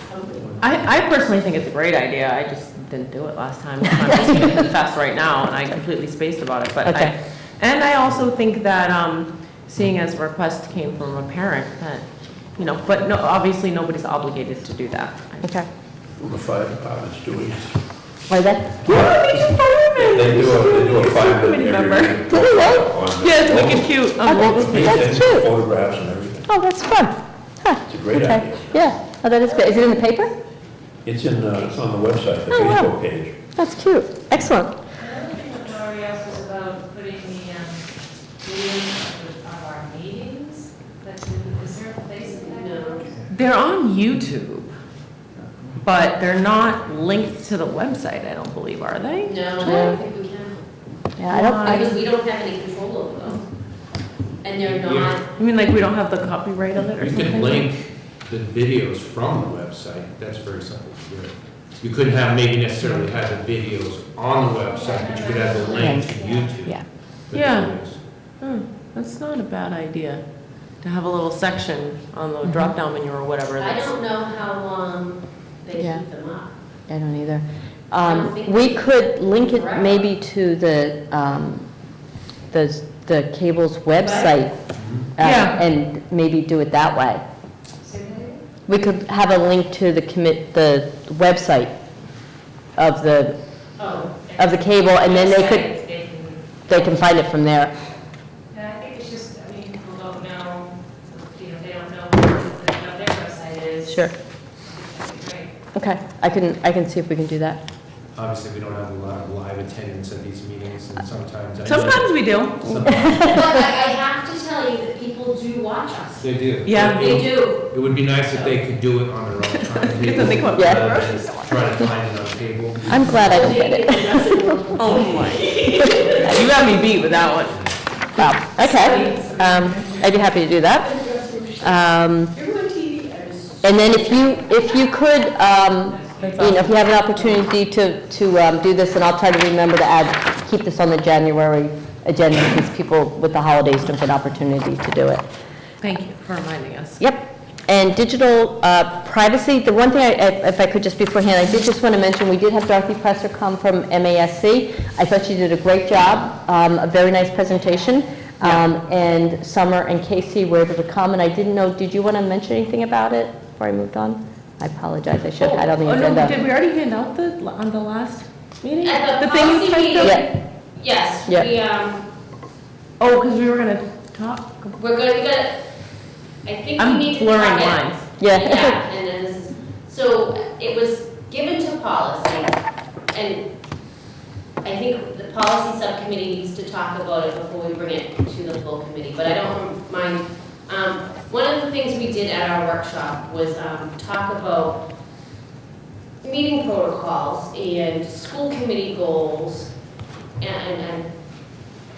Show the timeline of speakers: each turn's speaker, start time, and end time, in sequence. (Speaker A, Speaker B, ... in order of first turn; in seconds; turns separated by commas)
Speaker A: 0.6-15.6, Speaker B: 4.1-4.6, Speaker B: 6.8-7.1, Speaker C: 16.1-17.9, Speaker B: 18.3-19.1, Speaker A: 18.9-25.2, Speaker C: 20.0-26.5, Speaker B: 22.3-22.8, Speaker B: 24.2-25.5, Speaker B: 26.5-30.3, Speaker C: 27.9-28.8, Speaker C: 31.0-33.4, Speaker B: 32.5-33.0, Speaker B: 33.5-34.8, Speaker D: 35.0-37.8, Speaker D: 38.4-43.0, Speaker E: 42.2-43.1, Speaker A: 43.3-44.7, Speaker A: 45.8-49.9, Speaker E: 49.2-50.6, Speaker B: 49.6-50.0, Speaker B: 51.2-51.9, Speaker A: 51.3-51.9, Speaker E: 51.6-53.5, Speaker E: 54.4-55.3, Speaker F: 54.6-55.1, Speaker A: 55.3-57.7, Speaker F: 57.0-68.0, Speaker D: 64.8-66.4, Speaker B: 65.7-66.1, Speaker A: 67.3-73.9, Speaker B: 72.4-72.7, Speaker E: 73.6-76.5, Speaker B: 75.8-76.0, Speaker B: 76.9-81.9, Speaker E: 78.0-80.0, Speaker B: 82.5-87.2, Speaker E: 84.0-84.3, Speaker F: 84.8-85.1, Speaker A: 85.2-85.6, Speaker D: 87.8-88.4, Speaker B: 88.7-91.8, Speaker B: 92.7-95.9, Speaker E: 93.8-94.2, Speaker D: 94.4-96.6, Speaker B: 96.7-97.7, Speaker D: 98.5-104.1, Speaker B: 103.8-104.1, Speaker D: 104.6-105.5, Speaker B: 105.7-107.6, Speaker F: 108.1-113.4, Speaker A: 111.6-112.8, Speaker B: 112.9-113.4, Speaker E: 113.2-116.3, Speaker F: 116.2-123.5, Speaker A: 116.6-117.2, Speaker E: 116.8-117.7, Speaker E: 118.3-118.6, Speaker A: 119.4-121.8, Speaker B: 120.5-120.9, Speaker B: 122.9-124.6, Speaker E: 123.0-126.4, Speaker A: 124.7-127.8, Speaker B: 126.0-126.3, Speaker B: 128.2-131.1, Speaker A: 128.6-129.7, Speaker E: 128.6-129.2, Speaker E: 131.0-131.4, Speaker B: 131.6-132.3, Speaker E: 132.4-134.3, Speaker A: 132.7-133.1, Speaker B: 133.6-145.2, Speaker A: 136.2-136.7, Speaker E: 136.2-136.7, Speaker A: 145.8-147.0, Speaker B: 147.0-166.3, Speaker A: 165.4-170.2, Speaker E: 168.8-172.1, Speaker B: 170.0-170.2, Speaker A: 173.0-174.7, Speaker E: 174.8-175.7, Speaker E: 176.4-183.5, Speaker A: 176.8-178.1, Speaker B: 178.2-178.8, Speaker E: 184.6-194.8, Speaker E: 196.2-199.7, Speaker E: 200.4-201.1